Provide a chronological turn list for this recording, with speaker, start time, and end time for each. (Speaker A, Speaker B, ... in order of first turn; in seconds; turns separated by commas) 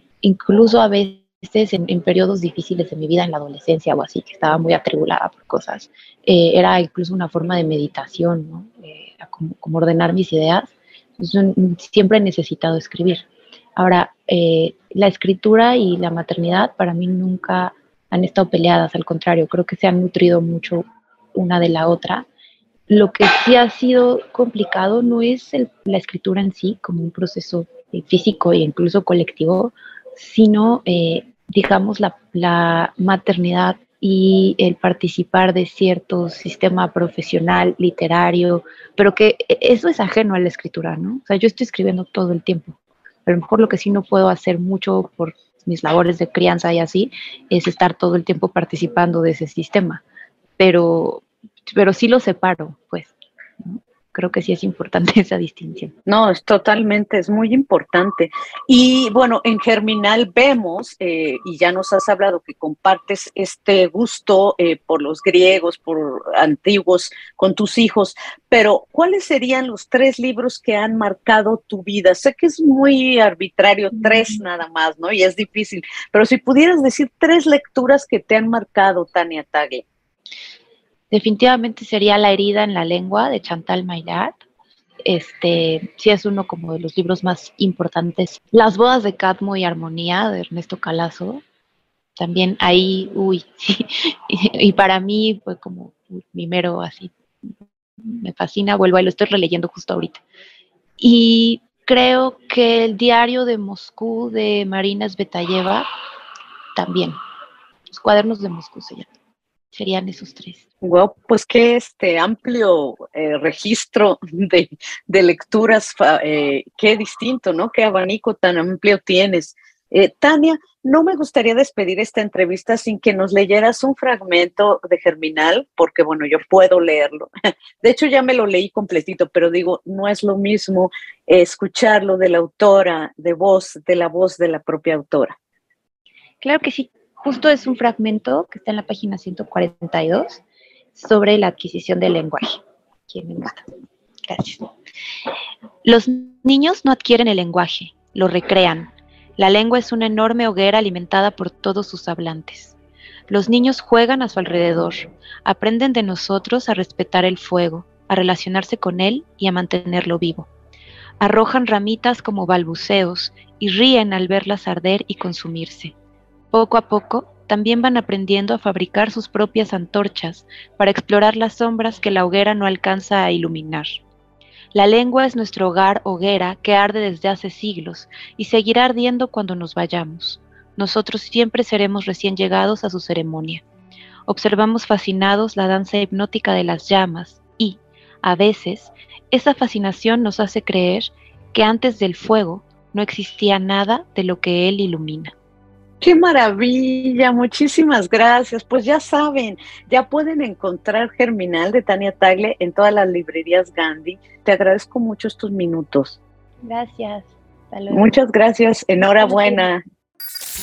Speaker A: 0.2-13.2, Speaker A: 13.8-22.3, Speaker A: 22.9-50.0, Speaker A: 50.6-55.9, Speaker B: 56.0-79.8, Speaker A: 81.1-84.3, Speaker A: 85.0-91.4, Speaker A: 92.2-97.1, Speaker A: 98.0-100.2, Speaker A: 101.0-105.9, Speaker A: 106.8-107.2, Speaker A: 107.9-109.1, Speaker A: 109.7-110.6, Speaker B: 110.8-127.3, Speaker B: 127.8-135.3, Speaker A: 136.4-140.4, Speaker A: 140.9-143.6, Speaker A: 144.2-144.7, Speaker A: 145.8-152.8, Speaker A: 153.3-160.5, Speaker A: 161.2-165.9, Speaker A: 166.5-174.0, Speaker A: 174.7-183.6, Speaker A: 184.3-195.3, Speaker B: 196.0-206.2, Speaker A: 206.6-208.1, Speaker B: 207.9-209.8, Speaker A: 209.0-209.7